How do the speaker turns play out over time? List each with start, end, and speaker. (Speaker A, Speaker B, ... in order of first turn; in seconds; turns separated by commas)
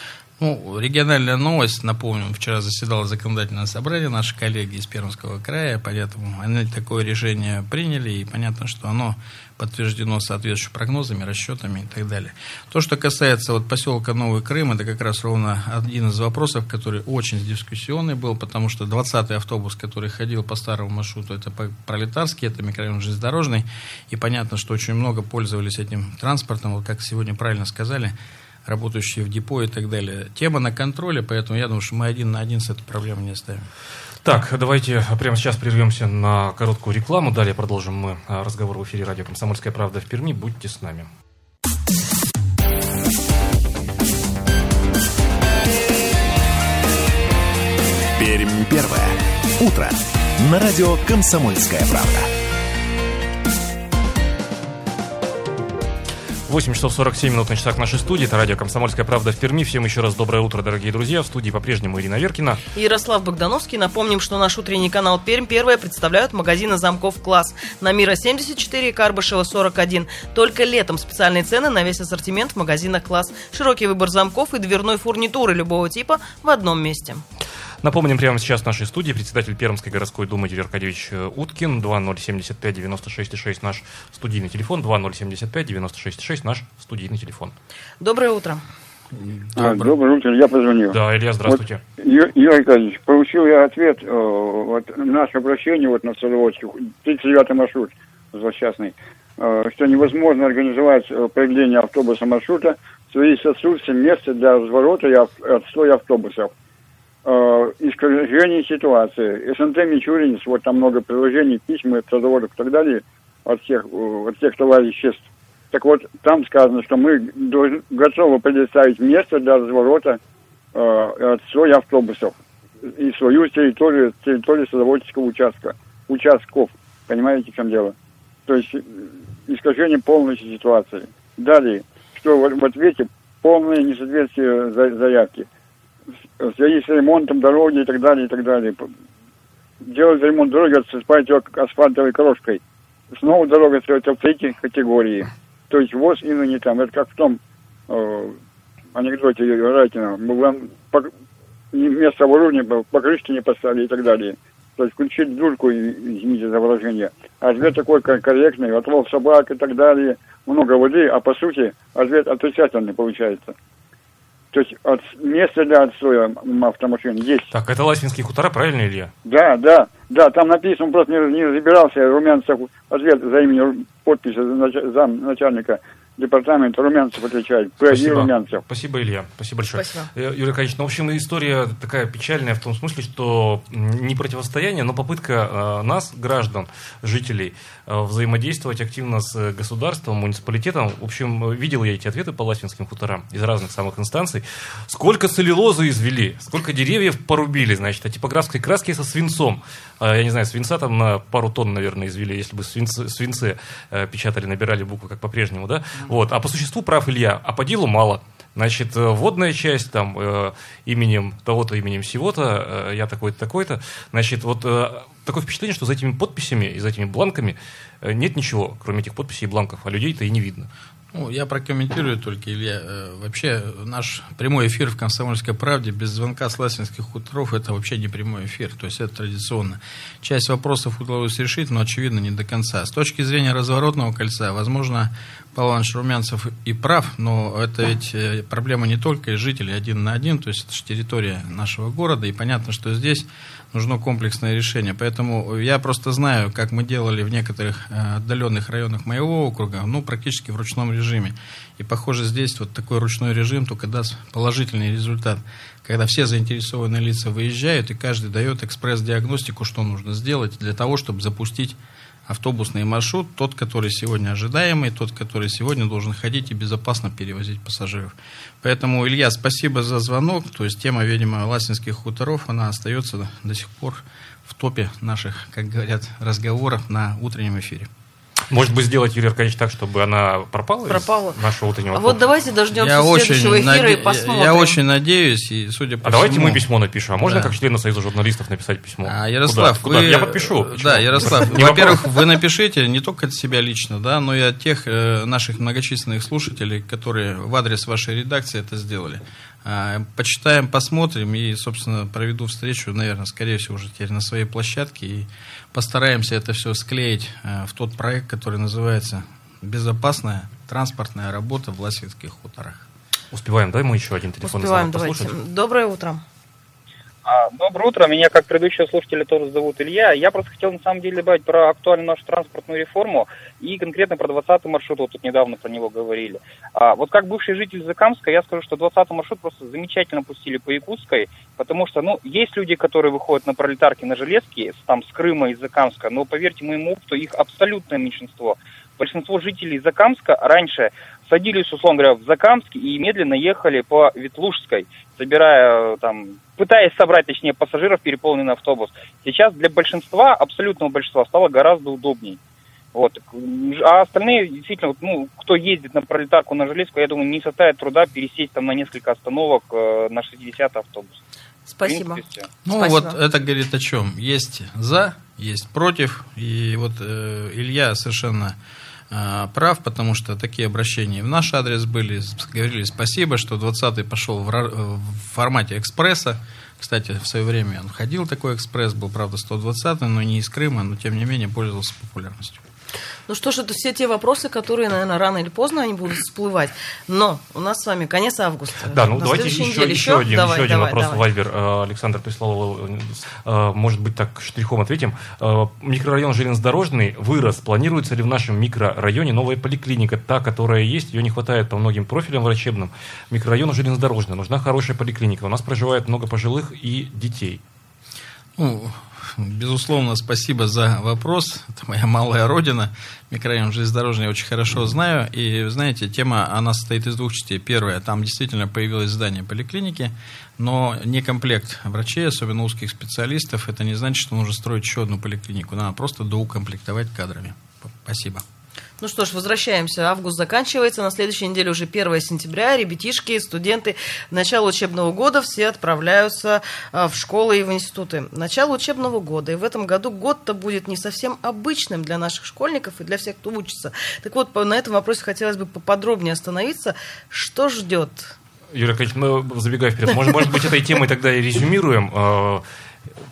Speaker A: 0.4-28.1, Speaker A: 28.6-33.7, Speaker B: 34.2-41.1, Speaker C: 48.1-52.3, Speaker B: 56.5-62.6, Speaker D: 62.7-77.2, Speaker B: 77.8-87.5, Speaker D: 88.0-88.6, Speaker E: 89.5-106.5, Speaker B: 89.6-89.9, Speaker B: 90.9-91.8, Speaker E: 107.2-120.2, Speaker E: 120.7-122.3, Speaker E: 122.9-127.9, Speaker E: 128.5-135.4, Speaker E: 136.4-138.9, Speaker E: 139.8-142.6, Speaker E: 143.1-148.4, Speaker E: 148.9-151.1, Speaker E: 151.7-163.5, Speaker E: 164.5-167.5, Speaker B: 167.5-169.1, Speaker E: 169.2-178.6, Speaker B: 177.9-220.7, Speaker D: 179.7-180.1, Speaker A: 221.1-277.9, Speaker B: 278.5-282.2, Speaker D: 280.9-281.4, Speaker D: 281.9-284.8, Speaker A: 282.7-287.5, Speaker B: 286.0-292.1, Speaker A: 289.0-312.9, Speaker B: 313.3-315.3, Speaker D: 314.4-316.2, Speaker F: 317.2-352.4, Speaker F: 352.9-361.2, Speaker D: 361.7-363.2, Speaker F: 361.8-362.5, Speaker A: 362.6-368.6, Speaker A: 369.1-382.6, Speaker D: 383.3-391.2, Speaker B: 388.9-407.6, Speaker A: 408.6-428.4, Speaker D: 429.0-448.3, Speaker B: 448.7-452.6